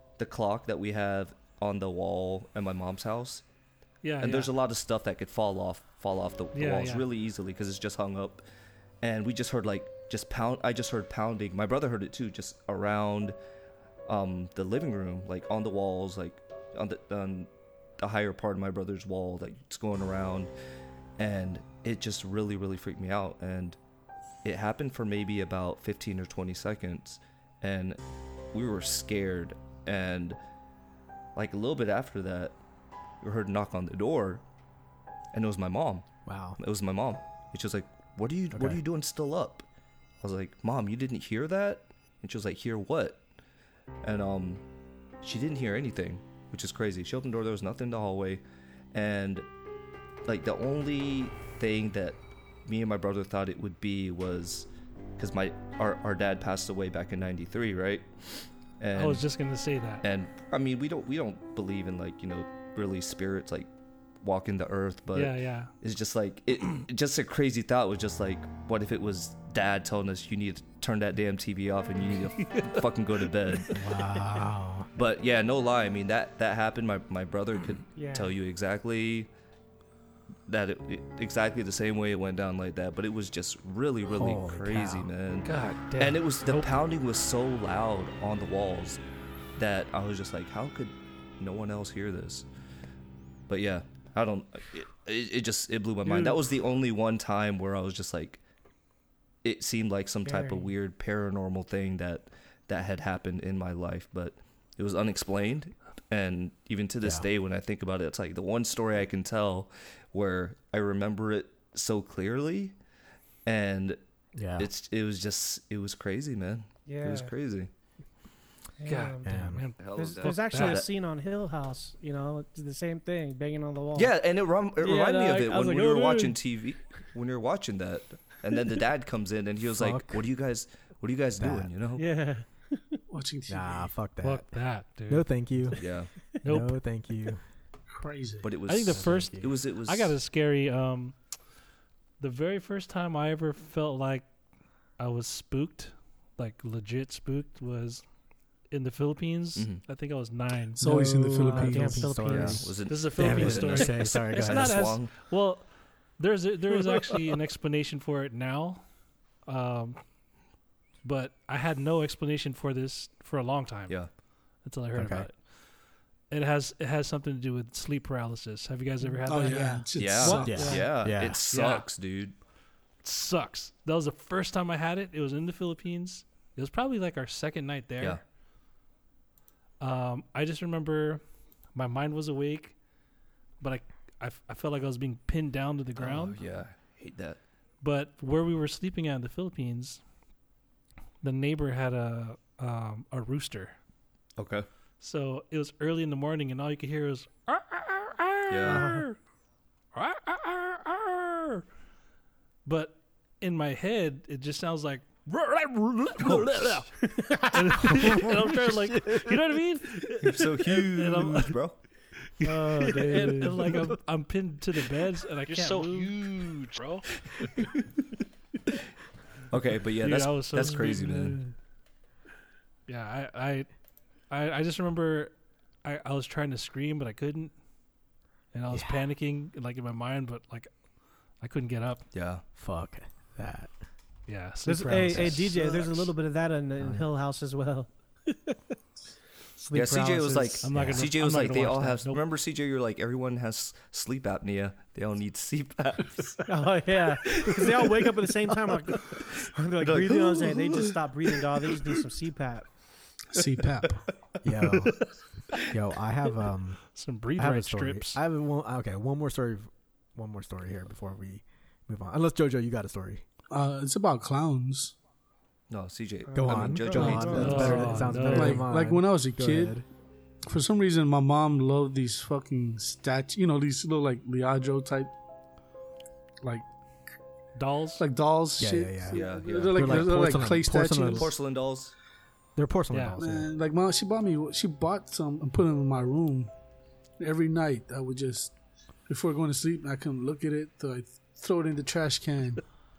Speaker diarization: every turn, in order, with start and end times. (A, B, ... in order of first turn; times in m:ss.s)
0:00.2-0:03.4 A
0:04.0-0:04.5 B
0:04.2-0:08.4 A
0:06.5-0:07.0 B
0:09.0-0:13.4 A
0:14.1-0:20.5 A
0:21.2-0:23.8 A
0:24.4-0:28.0 A
0:28.5-0:30.4 A
0:31.4-0:32.6 A
0:33.2-0:34.4 A
0:35.3-0:36.0 A
0:36.2-0:36.6 C
0:36.6-0:39.6 A
0:38.5-0:38.8 C
0:40.2-0:43.2 A
0:44.0-0:44.6 A
0:45.2-0:48.4 A
0:48.9-0:49.5 A
0:50.2-0:59.2 A
0:58.9-1:00.0 B
1:00.0-1:03.7 A
1:04.2-1:13.8 A
1:05.1-1:05.7 B
1:13.7-1:14.9 C
1:15.0-1:19.3 A
1:17.9-1:18.3 D
1:20.5-1:29.0 A
1:24.1-1:25.1 C
1:25.4-1:26.7 B
1:29.6-1:32.4 A
1:33.5-1:38.4 A
1:36.1-1:36.3 B
1:39.4-1:52.7 A
1:40.2-1:40.7 D
1:47.0-1:47.3 C
1:53.4-1:54.0 A
1:54.3-1:54.7 C
1:54.6-1:57.7 A
1:56.9-1:57.3 D
1:58.8-1:59.4 D
1:58.8-2:00.8 B
1:59.2-1:59.6 C
1:59.8-2:00.9 A
1:59.9-2:04.1 D
2:03.9-2:12.0 A
2:04.8-2:06.4 D
2:09.6-2:10.2 C
2:11.4-2:11.7 C
2:12.0-2:13.0 D
2:13.1-2:13.9 E
2:13.5-2:14.5 C
2:14.2-2:15.3 B
2:15.1-2:15.8 C
2:15.8-2:16.1 A
2:16.4-2:16.8 B
2:16.4-2:17.4 C
2:17.9-2:18.6 E
2:18.4-2:20.2 A
2:18.6-2:21.2 B
2:18.9-2:19.5 C
2:22.2-2:24.3 B
2:25.0-2:28.0 B
2:28.7-2:30.8 B
2:29.6-2:29.8 A
2:30.8-2:32.1 E
2:30.8-2:34.9 C
2:31.3-2:32.7 D
2:32.3-2:35.1 A
2:32.9-2:38.8 B
2:39.4-2:40.0 B
2:41.0-2:44.0 B
2:44.6-2:45.4 B
2:44.9-2:45.3 C
2:46.3-2:49.9 B
2:49.2-2:50.8 E
2:50.0-2:52.3 A
2:50.2-2:50.9 D
2:50.4-2:51.4 C
2:51.5-2:51.8 B
2:53.0-2:58.2 B
2:59.8-3:01.2 B
3:01.7-3:02.8 B
3:03.6-3:06.4 B
3:06.0-3:07.4 A
3:07.8-3:10.0 B
3:11.2-3:13.8 B
3:14.4-3:14.7 A
3:15.0-3:19.2 B
3:18.5-3:18.9 A
3:18.7-3:19.0 D
3:19.9-3:21.6 B
3:22.6-3:31.6 B
3:26.2-3:26.8 A
3:27.0-3:28.0 D
3:27.8-3:29.4 C
3:30.2-3:31.8 A
3:32.4-3:37.0 B
3:32.4-3:33.9 D
3:32.9-3:33.9 C
3:35.5-3:36.0 D
3:35.8-3:36.6 A
3:39.5-3:41.4 A
3:40.0-3:41.5 B
3:42.9-3:43.7 B
3:44.3-3:47.5 B
3:48.5-3:50.7 B
3:48.7-3:49.1 C
3:51.4-3:52.0 B
3:52.1-3:52.4 A
3:52.5-3:53.7 C
3:54.3-3:56.1 B
3:54.6-3:58.7 D
3:55.1-3:55.5 C
3:56.8-3:57.1 C
3:59.6-4:00.6 D
3:59.7-4:06.5 A
4:00.6-4:02.2 B
4:00.7-4:01.1 C
4:06.4-4:12.6 D
4:07.2-4:08.3 A
4:08.9-4:12.0 A
4:13.3-4:14.0 E
4:14.4-4:15.0 C
4:15.7-4:16.8 C
4:16.9-4:18.2 B
4:17.4-4:23.2 C
4:23.5-4:25.0 E
4:25.7-4:27.8 A
4:26.3-4:28.4 D
4:26.4-4:29.8 C
4:27.0-4:28.7 B
4:27.6-4:29.7 E
4:30.5-4:35.1 E
4:36.4-4:36.7 E
4:37.5-4:38.0 B
4:38.0-4:41.3 E
4:38.6-4:41.3 C
4:39.1-4:40.5 A
4:41.1-4:41.9 A
4:42.6-4:43.5 C
4:42.9-4:43.2 B
4:43.2-4:46.5 E
4:47.2-4:48.5 E
4:49.1-4:52.6 E